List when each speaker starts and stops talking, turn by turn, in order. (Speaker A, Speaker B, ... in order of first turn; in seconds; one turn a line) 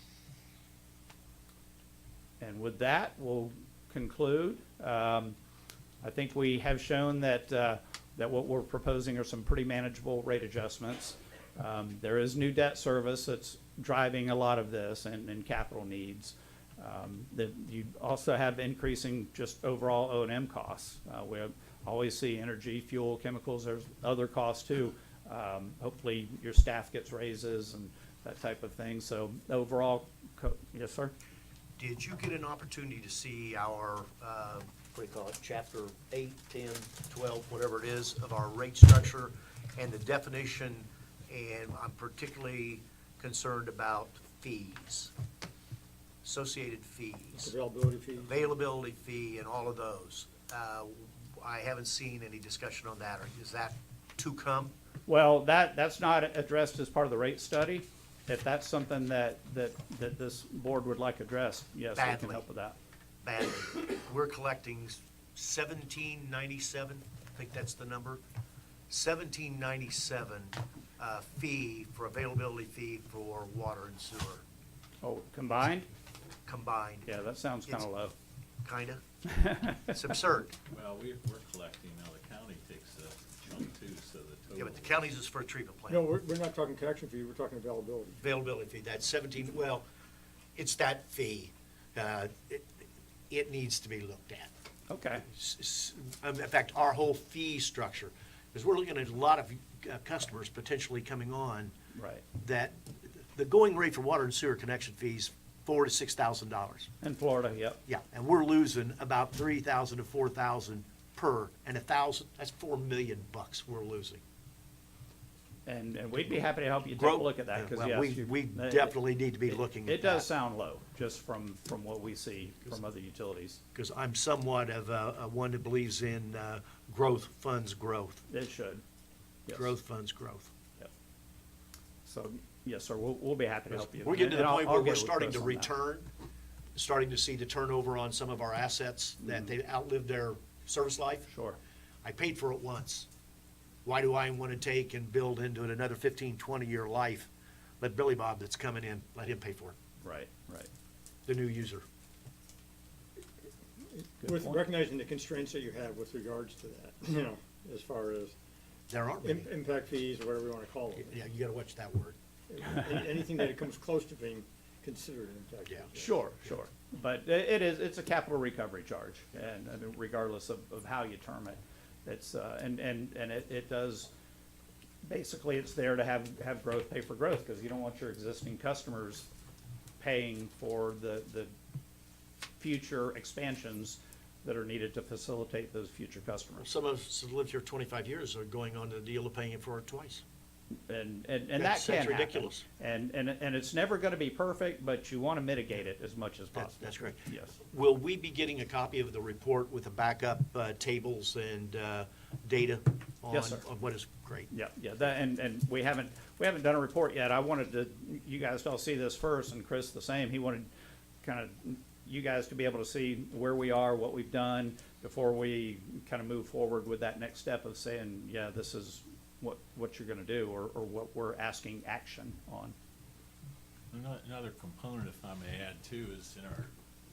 Speaker A: 2.4-5.3
Speaker A: 6.0-31.1
Speaker B: 31.8-45.1
Speaker B: 46.2-47.5
Speaker C: 47.4-48.3
Speaker B: 48.2-54.7
Speaker A: 55.1-62.8
Speaker B: 62.0-62.4
Speaker B: 63.2-68.2
Speaker B: 68.9-74.4
Speaker A: 75.0-75.9
Speaker B: 76.5-77.1
Speaker A: 77.0-78.1
Speaker B: 78.6-79.0
Speaker A: 79.3-79.9
Speaker B: 79.9-80.5
Speaker D: 80.7-85.0
Speaker B: 84.5-86.0
Speaker C: 85.9-88.2
Speaker B: 88.2-89.8
Speaker B: 90.5-94.5
Speaker A: 94.9-95.2
Speaker B: 95.2-101.7
Speaker A: 101.9-102.2
Speaker B: 102.3-106.9
Speaker A: 107.0-107.8
Speaker B: 107.8-114.2
Speaker A: 115.7-118.9
Speaker B: 117.0-120.3
Speaker A: 119.5-123.6
Speaker B: 123.7-128.2
Speaker A: 128.3-128.8
Speaker A: 129.5-129.7
Speaker B: 129.5-130.5
Speaker A: 132.0-135.7
Speaker B: 133.7-136.1
Speaker B: 136.8-141.3
Speaker A: 141.3-141.6
Speaker B: 142.0-143.1
Speaker B: 143.8-147.3
Speaker B: 147.8-149.8
Speaker A: 150.0-150.7
Speaker B: 151.2-151.8
Speaker A: 154.2-154.6
Speaker C: 154.2-158.3
Speaker B: 158.9-159.5
Speaker C: 159.2-161.1
Speaker B: 161.0-162.2
Speaker C: 162.5-166.1
Speaker A: 165.9-174.1
Speaker A: 175.0-179.2
Speaker A: 180.0-181.5
Speaker A: 182.6-186.7
Speaker B: 186.6-190.2
Speaker A: 190.9-197.6
Speaker B: 191.6-192.6
Speaker B: 196.6-204.5
Speaker A: 203.3-203.6
Speaker A: 204.5-210.7
Speaker A: 211.2-222.7
Speaker D: 223.9-226.7